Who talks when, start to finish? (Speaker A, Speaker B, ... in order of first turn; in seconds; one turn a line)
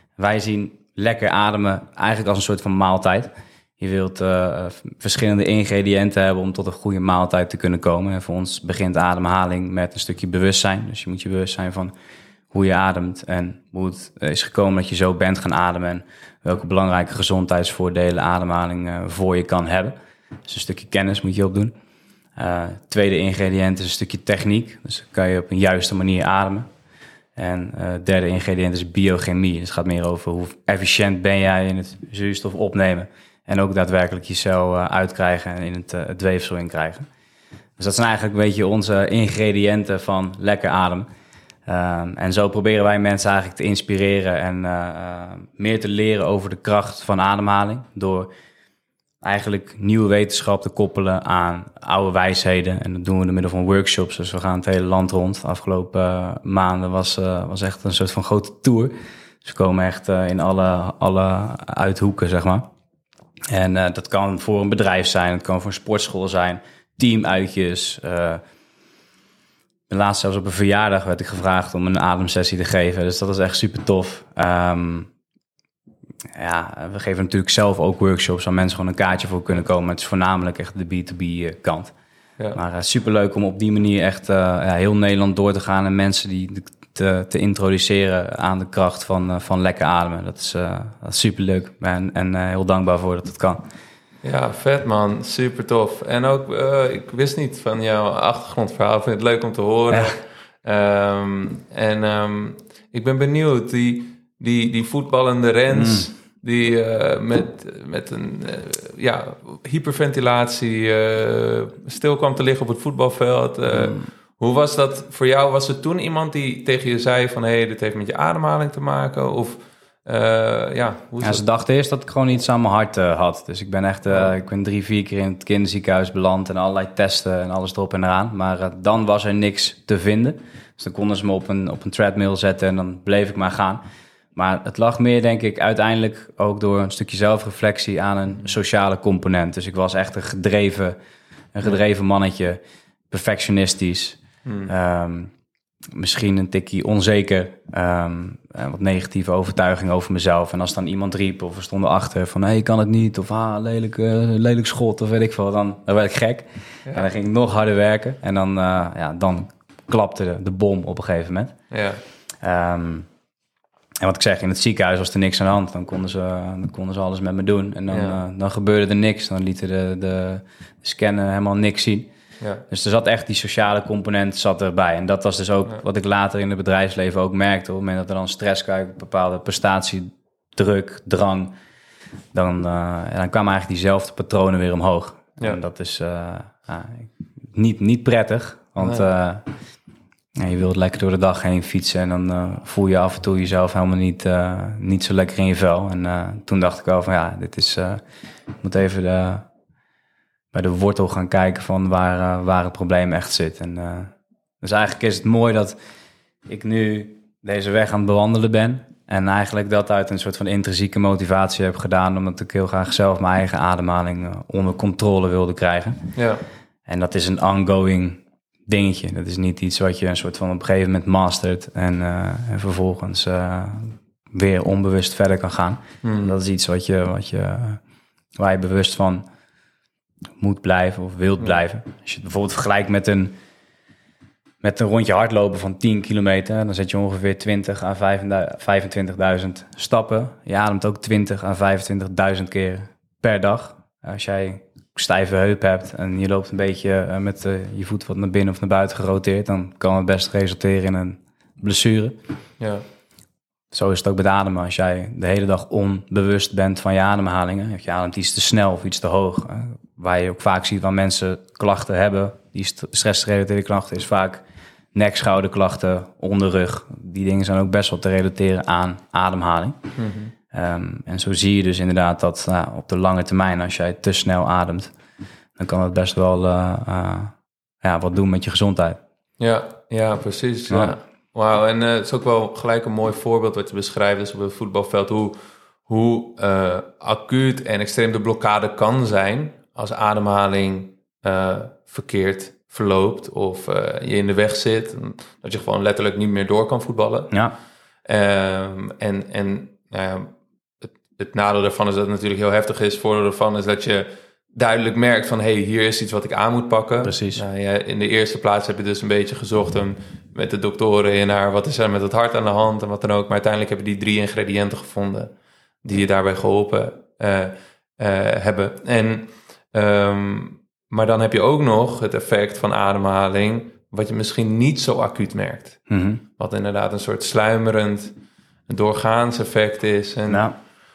Speaker A: 0.2-11.9
Speaker A: 12.5-19.9
Speaker A: 20.4-21.7
Speaker A: 22.4-26.6
Speaker A: 27.4-37.0
Speaker A: 37.8-41.1
Speaker A: 41.7-48.3
Speaker A: 49.2-58.9
Speaker A: 59.4-62.7
Speaker A: 63.5-68.4
Speaker A: 69.9-75.1
Speaker A: 76.3-81.9
Speaker A: 82.5-93.6
Speaker B: 94.2-121.4
Speaker A: 105.7-106.1
Speaker A: 113.7-114.0
Speaker A: 121.2-133.8
Speaker A: 134.3-140.9
Speaker A: 141.5-142.6
Speaker A: 143.1-145.3
Speaker B: 144.4-144.7
Speaker A: 145.9-161.5
Speaker B: 161.7-162.0
Speaker A: 162.4-163.1
Speaker A: 164.0-172.1
Speaker B: 167.9-168.2
Speaker A: 172.7-181.5
Speaker A: 182.3-189.4
Speaker B: 188.8-189.1
Speaker A: 190.3-198.0
Speaker A: 198.6-199.4
Speaker A: 200.5-205.8
Speaker A: 206.5-216.1
Speaker B: 216.2-216.4
Speaker A: 216.9-227.8
Speaker B: 226.0-226.3
Speaker A: 228.4-229.2
Speaker A: 230.4-233.3
Speaker A: 234.6-252.2
Speaker A: 253.7-264.4
Speaker A: 264.9-269.8
Speaker B: 270.0-270.3
Speaker A: 270.5-274.9
Speaker A: 275.6-279.0
Speaker B: 279.4-297.3
Speaker A: 280.7-280.9
Speaker B: 298.1-300.3
Speaker B: 300.8-315.3
Speaker A: 307.0-307.4
Speaker B: 315.8-325.8
Speaker A: 325.9-326.2
Speaker B: 326.4-328.1
Speaker B: 328.7-330.4
Speaker A: 330.3-330.5